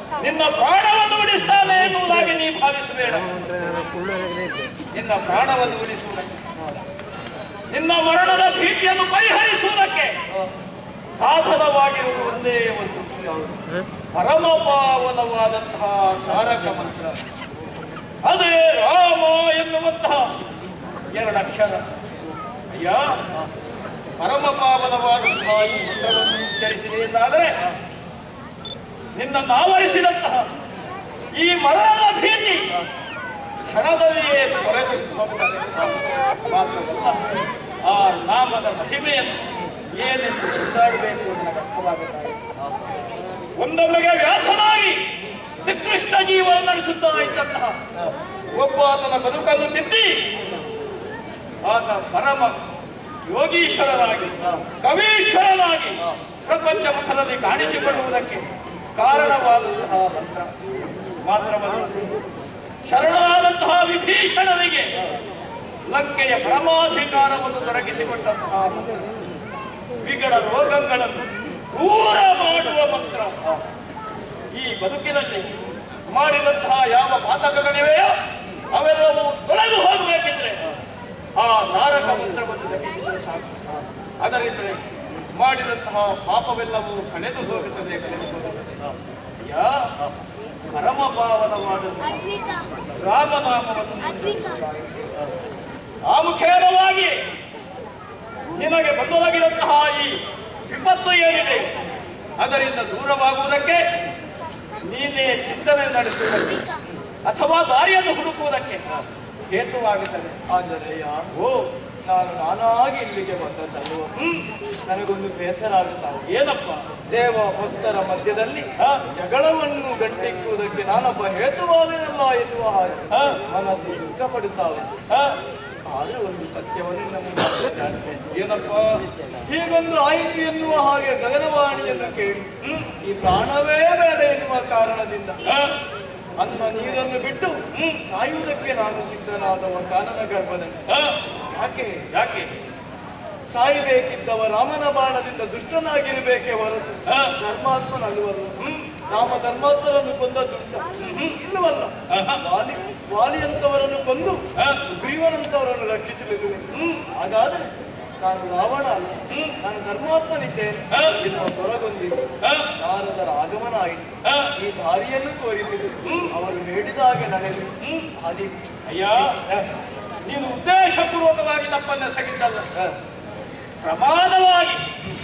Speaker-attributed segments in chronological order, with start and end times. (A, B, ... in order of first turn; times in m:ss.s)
0:00.2-0:03.3 A
0:03.4-0:03.8 B
0:04.9-0:06.3 A
0:07.7-0:10.2 A
0:11.2-0:13.2 A
0:13.2-0:13.5 B
0:14.1-0:17.2 A
0:18.2-0:20.3 A
0:21.1-0:21.8 A
0:22.7-0:23.2 A
0:24.2-0:27.6 A
0:29.2-0:30.5 A
0:31.3-0:32.7 A
0:33.7-0:35.7 A
0:36.5-0:39.4 A
0:39.9-0:42.4 A
0:43.6-0:47.8 A
0:48.5-0:50.2 A
0:51.6-0:52.6 A
0:53.3-1:00.5 A
1:01.2-1:02.1 A
1:02.8-1:04.9 A
1:05.9-1:09.0 A
1:10.0-1:13.4 A
1:14.5-1:15.5 A
1:16.1-1:18.1 A
1:18.7-1:20.6 A
1:21.4-1:23.6 A
1:24.2-1:24.8 A
1:25.4-1:28.8 A
1:29.4-1:30.0 A
1:30.7-1:32.3 A
1:33.0-1:34.9 A
1:36.0-1:37.2 A
1:38.5-1:41.7 A
1:42.4-1:43.8 A
1:44.8-1:46.6 A
1:47.2-1:49.0 A
1:49.5-1:50.4 A
1:50.5-1:51.2 B
1:51.3-1:51.7 A
1:52.0-1:54.1 B
1:54.2-1:54.4 A
1:54.8-1:56.3 B
1:56.3-1:56.8 A
1:57.1-2:04.9 B
2:03.1-2:03.4 A
2:05.1-2:05.4 A
2:05.8-2:08.2 B
2:08.3-2:09.0 A
2:09.5-2:12.5 B
2:12.6-2:12.9 A
2:13.0-2:15.4 B
2:15.4-2:15.8 A
2:16.4-2:20.8 B
2:20.9-2:21.2 A
2:21.5-2:22.0 B
2:22.1-2:22.5 A
2:23.5-2:28.6 B
2:27.1-2:27.3 A
2:29.1-2:37.7 B
2:31.0-2:31.4 A
2:32.1-2:32.4 A
2:36.8-2:37.0 A
2:38.2-2:42.1 B
2:40.9-2:41.2 A
2:42.4-2:42.7 A
2:42.8-2:48.5 B
2:47.8-2:48.1 A
2:48.9-2:49.6 A
2:50.2-2:52.6 A
2:53.8-2:54.8 A